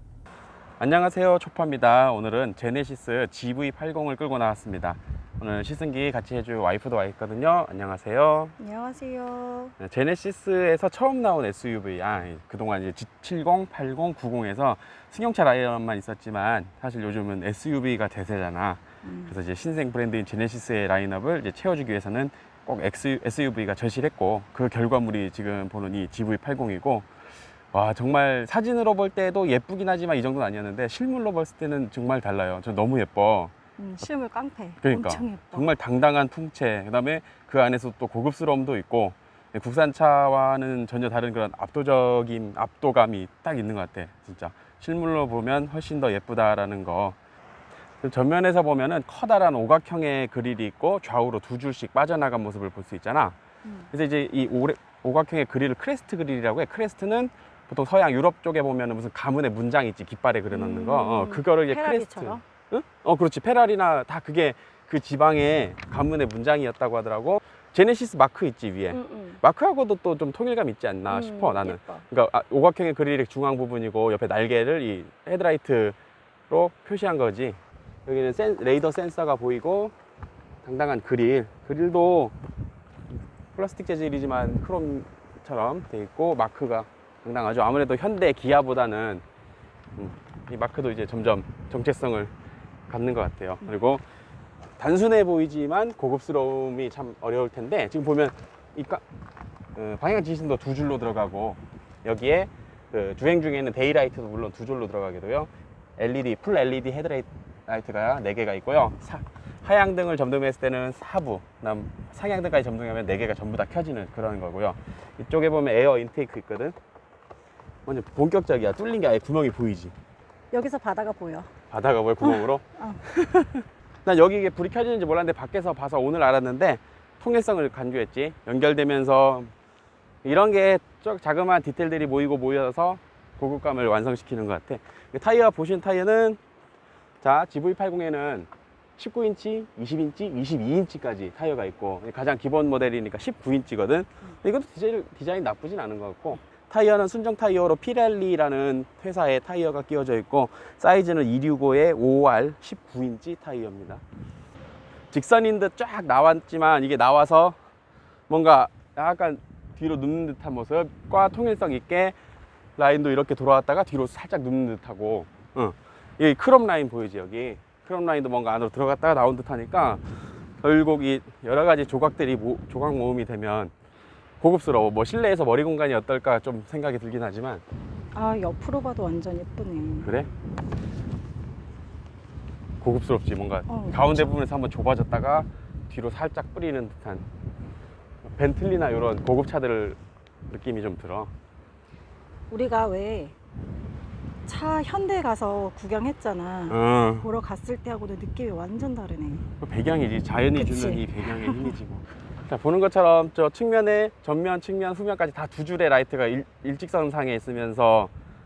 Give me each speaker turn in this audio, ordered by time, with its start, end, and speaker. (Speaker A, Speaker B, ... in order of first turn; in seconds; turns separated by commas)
Speaker A: 0.8-8.6, Speaker B: 8.6-9.8, Speaker A: 9.8-27.1, Speaker B: 19.0-19.4, Speaker A: 27.7-33.5, Speaker B: 33.8-35.7, Speaker A: 34.8-47.2, Speaker A: 48.0-53.4, Speaker B: 53.6-53.9, Speaker A: 53.9-76.0, Speaker B: 60.5-62.4, Speaker B: 68.9-69.4, Speaker B: 71.1-72.0, Speaker A: 76.5-80.0, Speaker A: 80.6-82.4, Speaker A: 83.1-89.2, Speaker A: 90.0-92.3, Speaker A: 92.9-94.0, Speaker A: 94.8-99.0, Speaker A: 99.8-116.8, Speaker A: 117.9-120.0, Speaker B: 120.5-121.5, Speaker A: 121.7-122.6, Speaker B: 122.2-123.2, Speaker A: 123.2-123.5, Speaker A: 124.0-129.5, Speaker A: 130.2-136.4, Speaker A: 137.2-154.0, Speaker A: 155.1-157.6, Speaker A: 158.3-162.2, Speaker A: 162.8-170.1, Speaker A: 170.6-173.7, Speaker A: 174.4-177.6, Speaker B: 178.1-180.1, Speaker A: 180.0-180.3, Speaker A: 182.8-187.3, Speaker B: 183.7-184.3, Speaker A: 188.2-191.3, Speaker B: 192.5-193.3, Speaker B: 194.5-199.5, Speaker A: 196.7-197.3, Speaker A: 199.6-208.1, Speaker B: 200.6-201.8